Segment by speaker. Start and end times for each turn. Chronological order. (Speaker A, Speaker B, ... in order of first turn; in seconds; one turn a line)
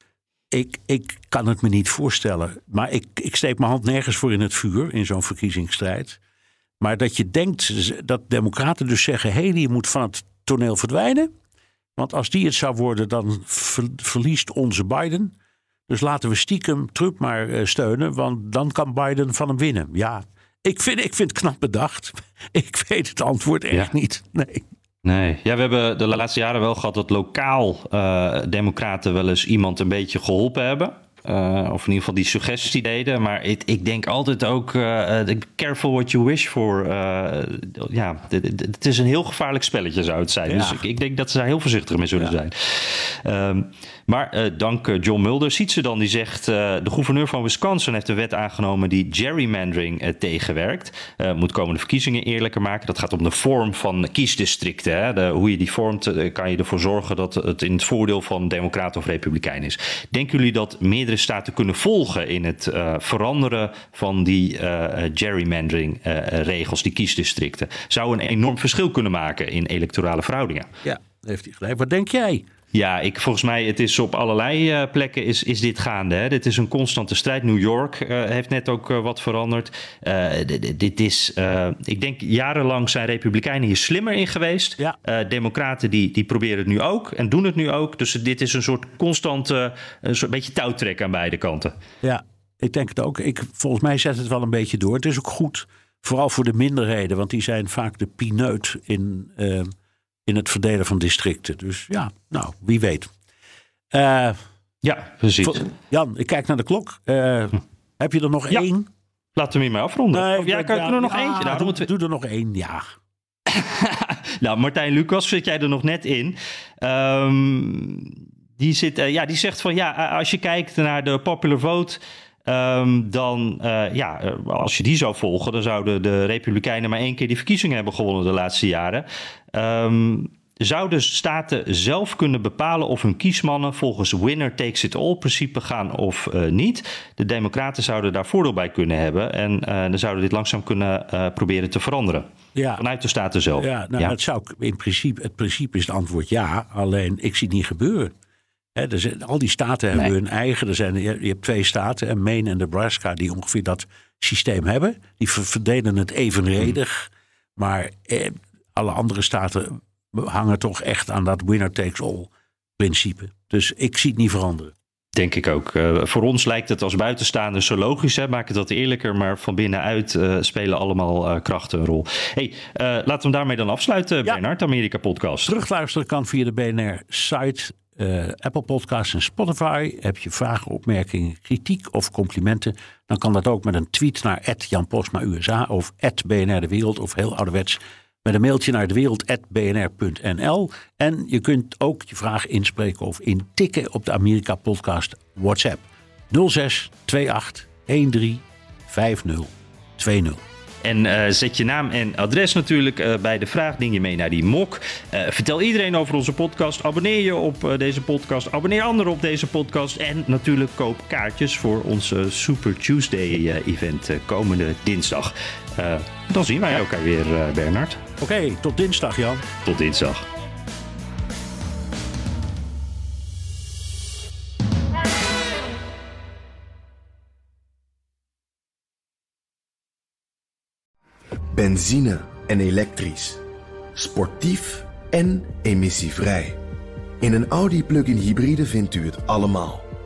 Speaker A: 0.5-6.2
Speaker A: 6.8-11.3
Speaker A: 12.0-15.3
Speaker A: 15.9-24.6
Speaker B: 25.1-70.7
Speaker A: 40.5-40.8
Speaker A: 70.8-72.5
Speaker B: 72.7-91.7
Speaker A: 92.0-99.7
Speaker A: 100.3-103.1
Speaker A: 103.9-104.4
Speaker B: 104.8-105.7
Speaker A: 105.4-108.9
Speaker B: 109.4-111.9
Speaker A: 110.1-112.8
Speaker B: 113.5-142.3
Speaker A: 142.6-142.8
Speaker B: 142.8-144.1
Speaker A: 143.6-148.1
Speaker A: 148.7-164.7
Speaker B: 165.2-175.5
Speaker A: 175.5-200.4
Speaker B: 200.8-218.0
Speaker A: 218.2-219.4
Speaker B: 219.6-220.3
Speaker C: 231.5-233.4
Speaker C: 233.9-236.6
Speaker C: 237.2-239.9